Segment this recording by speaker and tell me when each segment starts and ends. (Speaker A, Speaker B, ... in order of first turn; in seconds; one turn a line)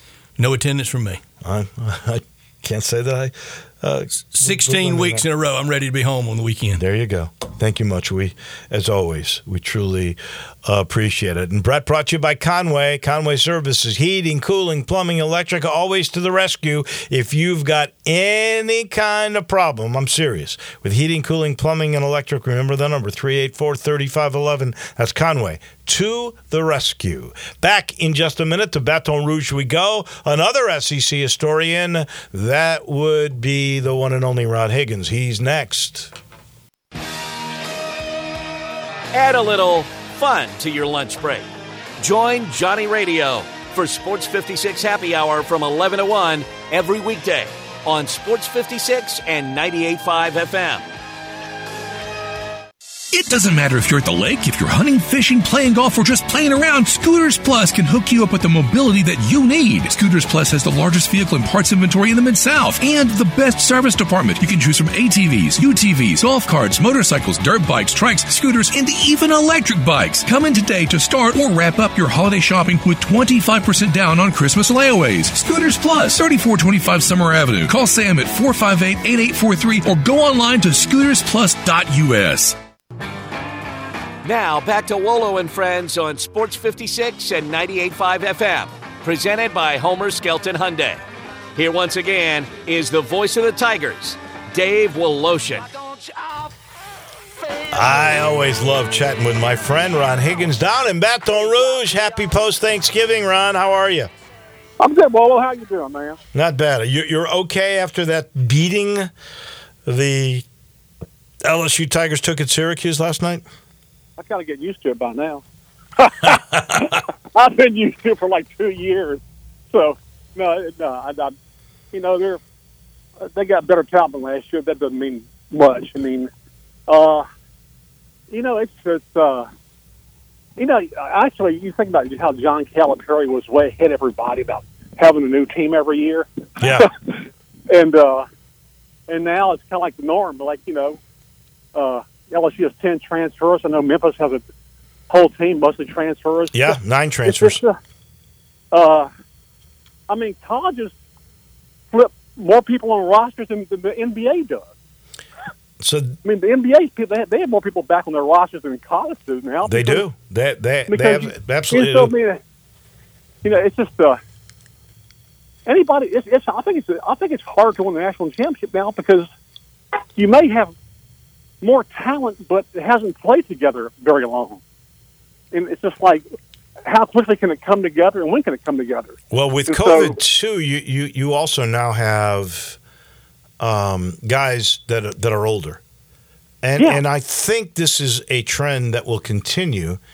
Speaker A: 0.4-1.2
Speaker B: 1.4-5.2
Speaker A: 4.3-6.8
Speaker B: 6.8-36.1
Speaker C: 39.1-41.5
Speaker C: 42.0-50.8
Speaker D: 53.1-82.6
Speaker C: 84.2-91.0
Speaker C: 91.5-95.7
Speaker B: 97.7-104.1
Speaker E: 104.8-106.2
Speaker B: 106.3-109.1
Speaker B: 109.8-110.5
Speaker B: 111.4-113.4
Speaker E: 114.2-115.4
Speaker E: 116.0-121.3
Speaker B: 116.3-116.8
Speaker E: 121.9-122.4
Speaker E: 123.2-126.3
Speaker E: 126.9-127.2
Speaker E: 128.3-129.5
Speaker E: 130.6-137.2
Speaker B: 136.6-136.9
Speaker E: 137.7-138.3
Speaker E: 139.1-141.0
Speaker E: 141.7-144.4
Speaker E: 145.1-147.8
Speaker B: 146.5-147.6
Speaker E: 148.7-149.1
Speaker E: 150.1-150.9
Speaker E: 151.9-154.7
Speaker B: 155.8-156.2
Speaker E: 156.2-160.0
Speaker B: 159.6-162.1
Speaker E: 160.9-162.4
Speaker E: 163.4-164.2
Speaker E: 165.7-169.3
Speaker E: 170.2-170.7
Speaker E: 171.6-174.6
Speaker E: 175.5-176.2
Speaker E: 176.8-179.2
Speaker B: 179.3-182.8
Speaker E: 179.7-180.1
Speaker B: 183.6-185.8
Speaker B: 186.6-190.0